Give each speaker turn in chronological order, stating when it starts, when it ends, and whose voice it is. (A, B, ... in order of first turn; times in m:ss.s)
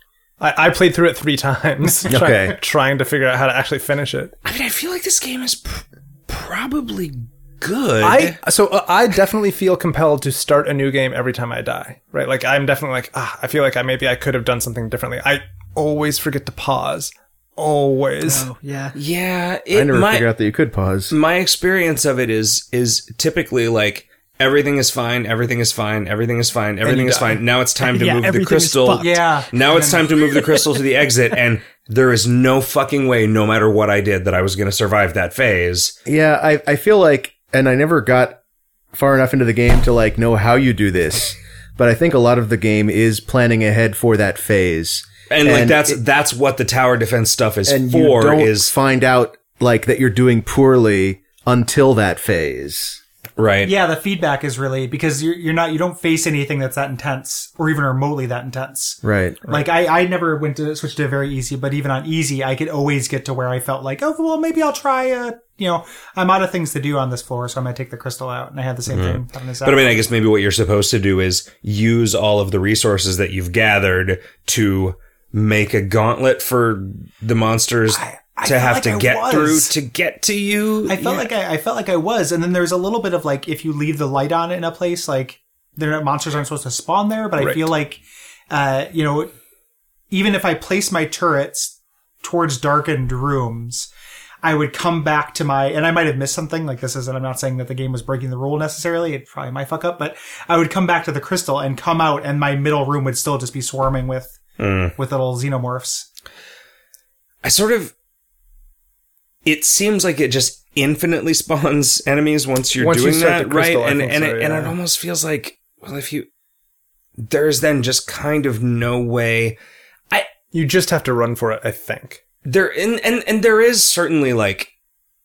0:00.4-0:04.3 A
0:02.1-0:02.6 B
0:04.4-0:08.4 C
0:08.0-0:18.5 A
0:18.2-0:19.0 D
0:18.9-0:20.3 C
0:19.7-0:21.1 B
0:21.1-0:36.0 C
0:26.8-0:27.4 A
0:27.8-0:29.3 D
0:29.0-0:30.0 E
0:36.0-0:38.4 B
0:38.9-0:46.0 B
0:45.3-0:48.7 C
0:47.6-0:53.0 B
0:53.4-0:53.7 C
0:53.6-1:10.0 E
0:59.0-0:59.5 B
1:08.9-1:21.3 C
1:17.9-1:19.7 E
1:20.9-1:29.3 E
1:27.4-1:27.7 A
1:30.1-1:33.9 E
1:34.4-1:44.4 E
1:44.6-1:45.0 C
1:45.0-1:46.1 E
1:47.4-1:47.9 C
1:49.4-1:56.3 C
1:52.8-1:54.8 A
1:57.2-1:59.6 C
2:00.5-2:02.2 A
2:02.4-2:04.7 C